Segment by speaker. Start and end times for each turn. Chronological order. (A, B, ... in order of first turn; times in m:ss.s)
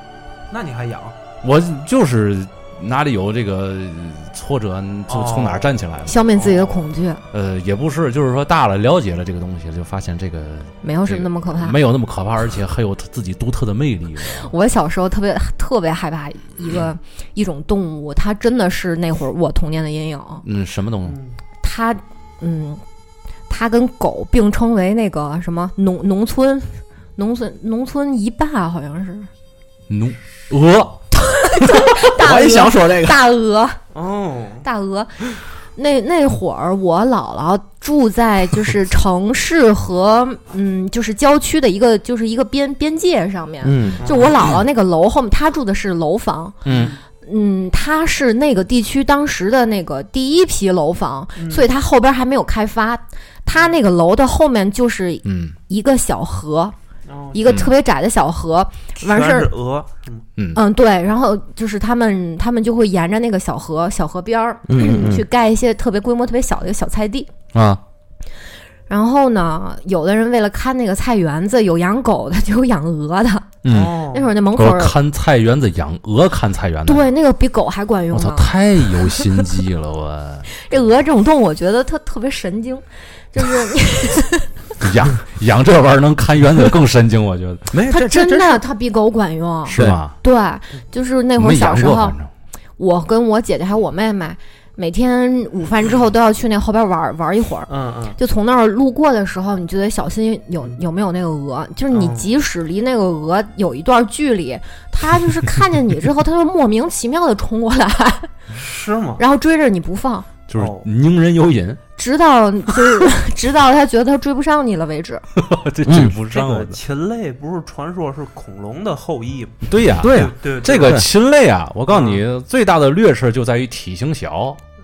0:00.5-0:01.2 A
0:01.4-0:06.2 B
0:05.1-0:05.7 A
0:06.0-0:07.2 C
0:06.3-0:06.8 A
0:07.3-0:14.5 B
0:10.8-0:11.8 C
0:14.3-0:20.4 C
0:20.4-0:21.2 B
0:21.0-0:21.4 A
0:21.6-0:22.8 C
0:23.5-0:29.3 C
0:29.9-0:31.0 B
0:31.1-0:33.8 C
0:31.8-0:33.2 D
0:33.9-0:34.6 A
0:34.6-0:46.6 C
0:43.6-0:44.2 D
0:44.0-0:44.3 A
0:46.6-0:46.9 B
0:46.6-0:47.0 A
0:47.2-0:56.7 C
0:51.4-0:51.7 A
0:55.2-0:55.6 B
0:57.1-0:57.6 A
0:57.3-0:59.5 C
0:57.4-0:57.7 B
0:59.0-1:00.2 A
1:00.4-1:00.6 B
1:00.5-1:07.3 C
1:04.6-1:05.2 D
1:07.5-1:07.8 B
1:08.9-1:13.5 C
1:13.6-1:13.9 B
1:13.6-1:14.3 A
1:14.1-1:15.0 C
1:14.5-1:17.1 B
1:16.8-1:18.5 C
1:18.1-1:20.5 B
1:20.5-1:24.5 C
1:24.8-1:27.7 B
1:27.7-1:28.6 D
1:27.9-1:32.2 C
1:29.6-1:30.2 B
1:29.7-1:30.0 D
1:31.4-1:32.3 B
1:32.8-1:48.3 C
1:37.7-1:38.2 A
1:41.9-1:42.3 A
1:48.5-1:49.2 A
1:49.2-1:50.3 C
1:50.5-1:51.8 B
1:50.5-1:50.9 A
1:52.0-1:55.2 C
1:55.4-1:56.8 B
1:55.8-1:56.1 D
1:56.3-2:01.0 A
1:59.6-2:04.6 B
2:00.0-2:01.0 D
2:01.9-2:02.2 A